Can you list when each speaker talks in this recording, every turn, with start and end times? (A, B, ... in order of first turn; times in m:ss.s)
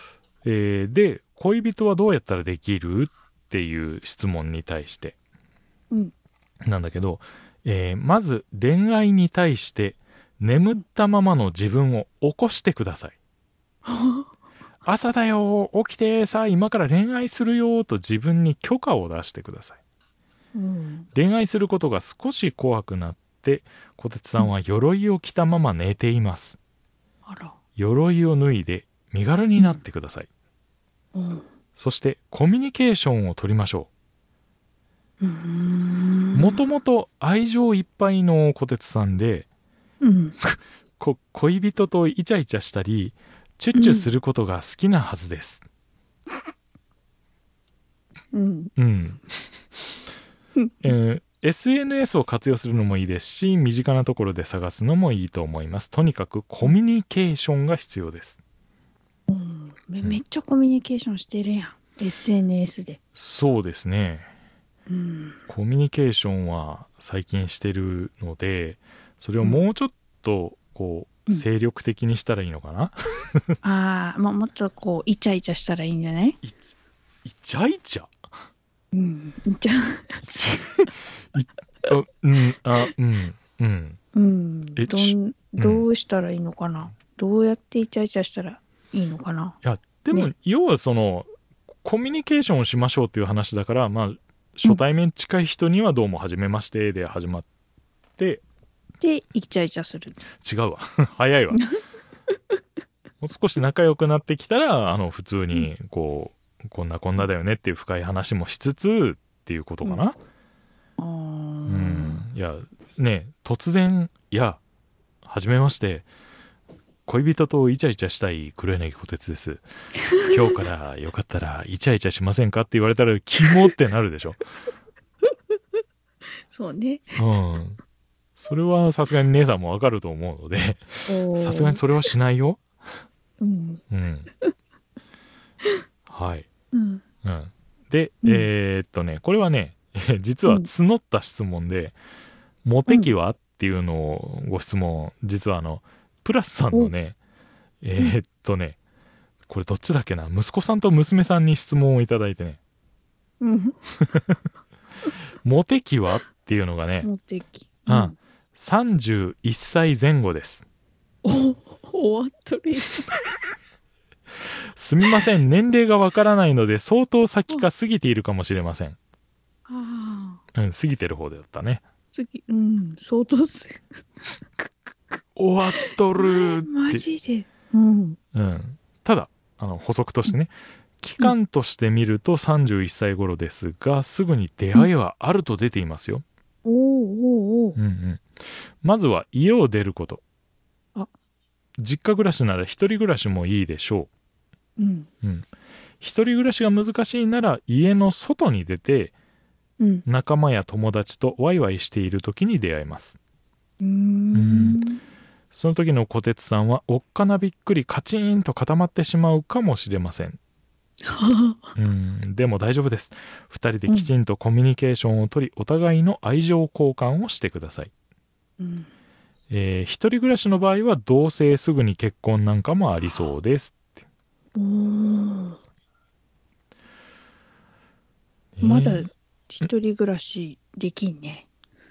0:00.4-0:05.2 A
0:06.6-0:13.1 A
0:13.8-0:14.3 B
0:14.8-0:19.8 A
0:20.5-0:21.1 B
0:21.1-0:26.6 A
0:27.2-0:27.6 B
0:27.8-0:30.3 A
0:31.1-0:31.4 B
0:31.8-0:33.9 A
0:35.2-0:36.6 B
0:36.3-0:39.5 A
0:40.0-0:40.4 B
0:40.4-0:45.6 A
0:43.7-0:44.1 B
0:48.3-0:48.7 B
0:48.8-0:49.8 A
0:50.6-0:50.9 B
0:50.8-0:58.4 A
0:59.3-1:03.0 B
1:03.1-1:04.3 A
1:04.9-1:05.4 B
1:05.5-1:13.5 A
1:13.6-1:16.4 B
1:16.4-1:16.7 A
1:17.2-1:18.1 A
1:18.9-1:20.2 B
1:20.2-1:24.0 A
1:24.1-1:29.6 B
1:24.8-1:25.9 A
1:29.6-1:31.3 A
1:31.8-1:37.4 A
1:38.2-1:38.4 A
1:39.0-1:40.2 B
1:40.4-1:41.6 A
1:43.2-1:50.2 A
1:51.0-1:52.2 B
1:51.7-1:54.6 A
1:55.2-1:56.1 A
1:57.0-1:59.6 A
2:00.2-2:04.4 A
2:06.5-2:07.2 B
2:07.2-2:07.8 A
2:08.4-2:12.6 A
2:11.1-2:11.8 B
2:13.4-2:13.8 B
2:13.9-2:14.3 A
2:16.1-2:16.5 A
2:16.7-2:17.0 B
2:17.2-2:22.0 A
2:22.6-2:27.2 A
2:27.8-2:28.8 A
2:29.5-2:32.6 A
2:33.4-2:33.8 B
2:34.0-2:34.4 A
2:35.4-2:37.1 A
2:37.0-2:38.2 B
2:37.9-2:40.6 A
2:41.2-2:43.2 B
2:44.8-2:49.0 A
2:49.7-2:50.4 B
2:50.5-2:51.8 A
2:52.1-2:54.0 B
2:54.6-2:57.0 A
2:56.1-2:58.2 B
2:58.3-3:06.2 A
3:06.6-3:07.8 B
3:07.8-3:10.2 A
3:11.8-3:14.1 A
3:14.8-3:15.1 B
3:15.2-3:15.5 A
3:16.0-3:19.1 A
3:19.8-3:20.0 B
3:20.0-3:23.2 A
3:23.8-3:25.0 B
3:24.3-3:24.8 A
3:25.5-3:30.4 A
3:31.0-3:31.7 B
3:31.8-3:37.9 A
3:38.6-3:38.9 B
3:39.5-3:43.9 A
3:44.6-3:45.6 B
3:48.6-3:49.1 A
3:48.6-3:51.5 B